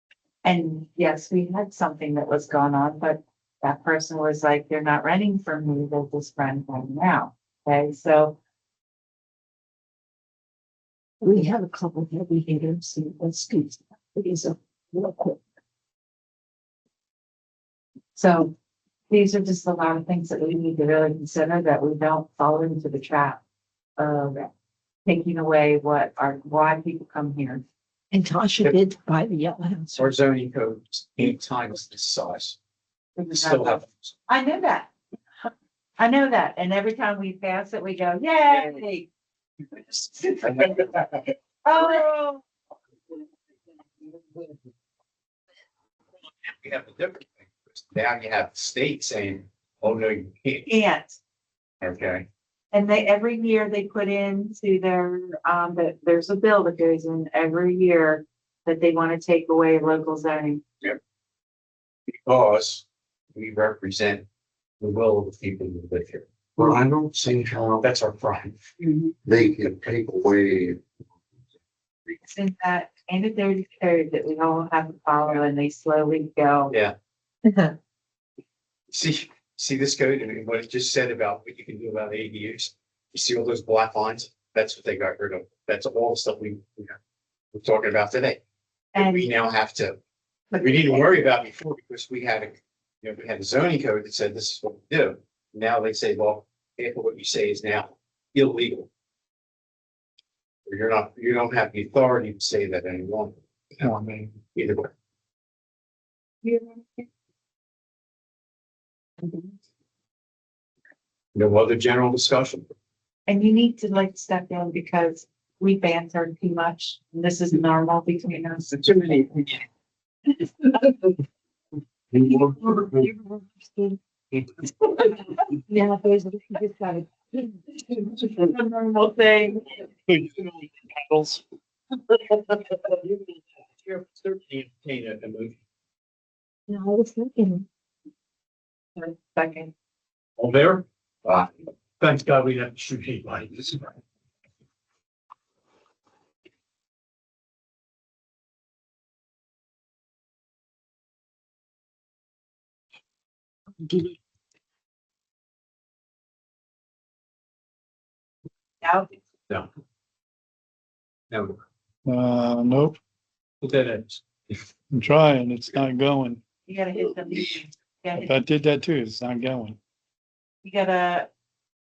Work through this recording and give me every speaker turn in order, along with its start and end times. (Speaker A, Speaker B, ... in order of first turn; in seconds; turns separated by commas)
Speaker A: 0.4-8.4, Speaker B: 11.2-15.4, Speaker A: 18.1-18.5, Speaker A: 19.1-23.4, Speaker A: 24.0-24.5, Speaker A: 25.0-27.6, Speaker B: 28.1-30.1, Speaker C: 29.9-32.6, Speaker A: 33.1-34.9, Speaker C: 33.3-34.1, Speaker A: 36.0-39.1, Speaker A: 40.2-40.8, Speaker A: 41.6-42.4, Speaker C: 46.4-50.7, Speaker A: 50.7-51.2, Speaker C: 51.8-52.2, Speaker A: 52.7-60.6, Speaker C: 62.1-64.2, Speaker C: 64.8-68.5, Speaker D: 66.6-67.8, Speaker B: 68.8-69.1, Speaker D: 69.2-70.8, Speaker A: 72.2-76.7, Speaker C: 76.7-76.9, Speaker C: 78.9-86.9, Speaker C: 87.5-88.4, Speaker A: 88.9-89.3, Speaker C: 89.0-90.0, Speaker C: 90.6-98.9, Speaker C: 100.7-104.9, Speaker E: 103.8-104.4, Speaker A: 106.4-107.0, Speaker C: 111.3-112.7, Speaker A: 113.3-118.7, Speaker C: 118.7-119.5, Speaker D: 122.1-122.8, Speaker B: 122.8-124.0, Speaker B: 125.7-127.6, Speaker A: 128.3-129.6, Speaker E: 130.1-131.4, Speaker C: 132.9-133.2, Speaker C: 133.8-135.6, Speaker B: 136.7-137.7, Speaker A: 138.9-139.7, Speaker C: 140.4-143.9, Speaker B: 153.8-154.1, Speaker A: 158.8-159.1, Speaker C: 161.3-161.6, Speaker E: 162.1-163.0, Speaker C: 163.6-164.6, Speaker E: 164.9-166.4, Speaker A: 166.7-168.3, Speaker E: 168.1-169.8, Speaker A: 170.6-171.3